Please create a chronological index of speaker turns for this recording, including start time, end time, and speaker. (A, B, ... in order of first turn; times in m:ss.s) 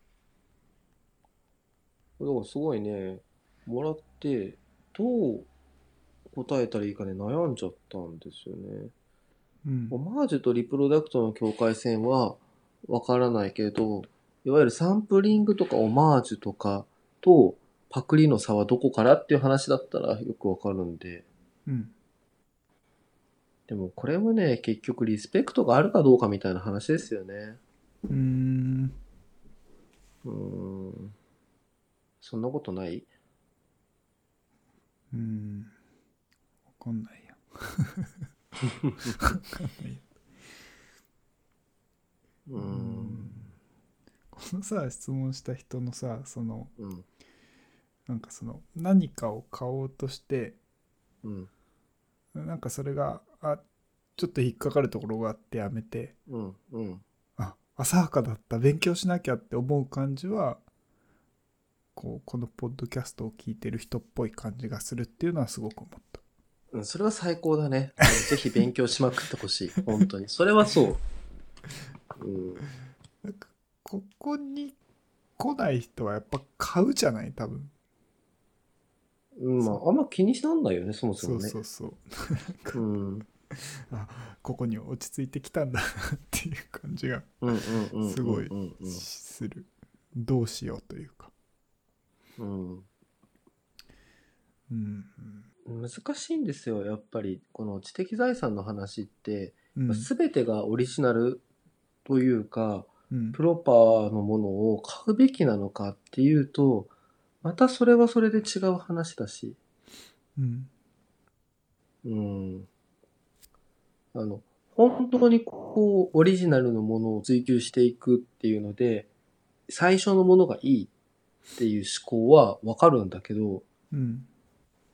0:02.2-0:05.5 A
0:06.3-0:08.9 A
0:09.6-0:10.0 B
0:09.9-0:21.3 A
0:21.7-0:21.9 B
0:23.7-0:27.6 A
0:28.1-0:29.0 B
0:30.2-0:31.2 A
0:32.2-0:33.1 A
0:35.1-0:35.7 B
0:36.7-0:38.3 B
0:39.0-0:40.1 B
0:42.5-0:43.5 A
0:42.6-0:43.5 B
0:44.3-0:46.8 B
0:46.8-0:47.0 A
0:48.1-0:50.6 B
0:51.2-0:51.5 A
0:52.3-0:53.6 B
0:54.2-0:56.2 B
0:56.3-0:57.0 A
0:57.4-1:00.6 B
1:02.0-1:06.2 B
1:06.7-1:11.0 A
1:12.2-1:12.6 A
1:13.2-1:14.8 B
1:15.4-1:17.7 B
1:19.4-1:21.6 A
1:21.2-1:22.8 B
1:22.7-1:23.3 A
1:23.5-1:27.4 B
1:27.4-1:29.0 A
1:28.0-1:31.3 B
1:32.4-1:32.9 A
1:34.7-1:35.5 B
1:35.6-1:41.4 A
1:39.8-1:40.1 B
1:42.0-1:46.9 A
1:43.1-1:43.4 B
1:47.4-1:49.6 A
1:50.4-1:50.7 B
1:52.0-1:52.7 A
1:54.1-1:59.1 A
1:59.7-2:00.9 A
2:01.6-2:03.6 A
2:03.9-2:04.3 B